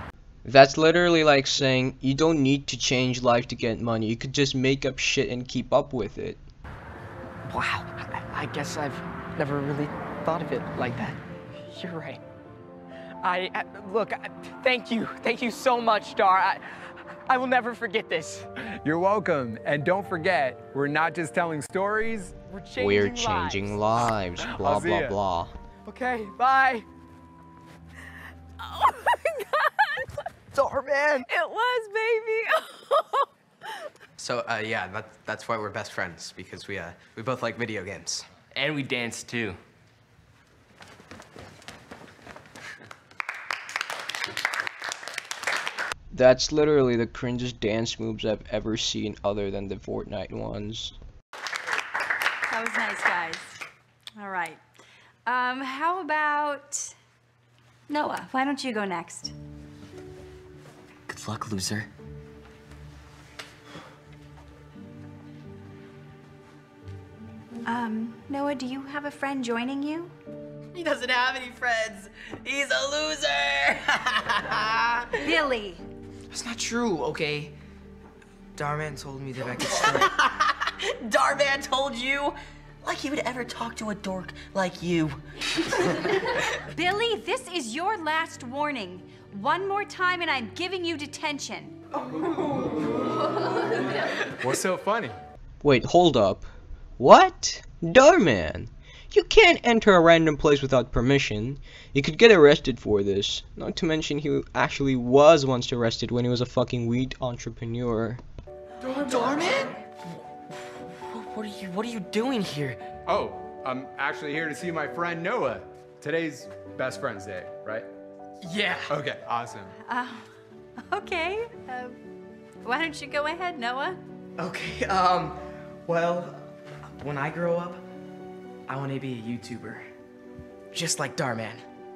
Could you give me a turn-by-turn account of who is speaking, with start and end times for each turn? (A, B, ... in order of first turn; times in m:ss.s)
0:00.4-0:06.4 A
0:07.5-0:07.8 B
0:08.4-0:11.1 B
0:11.8-0:12.1 B
0:13.4-0:16.6 B
0:17.3-0:18.4 B
0:18.8-0:22.4 C
0:22.6-0:22.9 B
0:22.8-0:25.5 A
0:24.4-0:25.2 C
0:25.9-0:26.8 B
0:30.6-0:31.2 B
0:31.3-0:33.2 D
0:34.2-0:38.2 E
0:38.5-0:39.6 F
0:46.1-0:51.0 A
0:52.4-0:53.6 G
0:54.2-0:54.6 G
0:55.2-0:56.9 G
0:57.9-0:59.3 G
1:01.1-1:01.9 F
1:07.6-1:10.1 G
1:10.7-1:15.2 F
1:15.2-1:15.8 G
1:16.3-1:17.5 B
1:18.6-1:20.1 B
1:19.7-1:26.0 F
1:26.6-1:31.8 G
1:34.4-1:35.2 C
1:35.6-1:36.4 A
1:37.0-1:48.2 A
1:49.0-1:50.2 F
1:49.2-1:49.6 B
1:50.7-1:52.8 F
1:53.1-1:57.9 C
1:58.4-1:58.9 B
1:58.9-1:59.7 C
1:59.8-2:00.3 G
2:00.8-2:02.0 G
2:02.6-2:04.0 G
2:04.4-2:06.5 B
2:07.0-2:07.8 B
2:08.7-2:09.9 B
2:10.7-2:11.6 B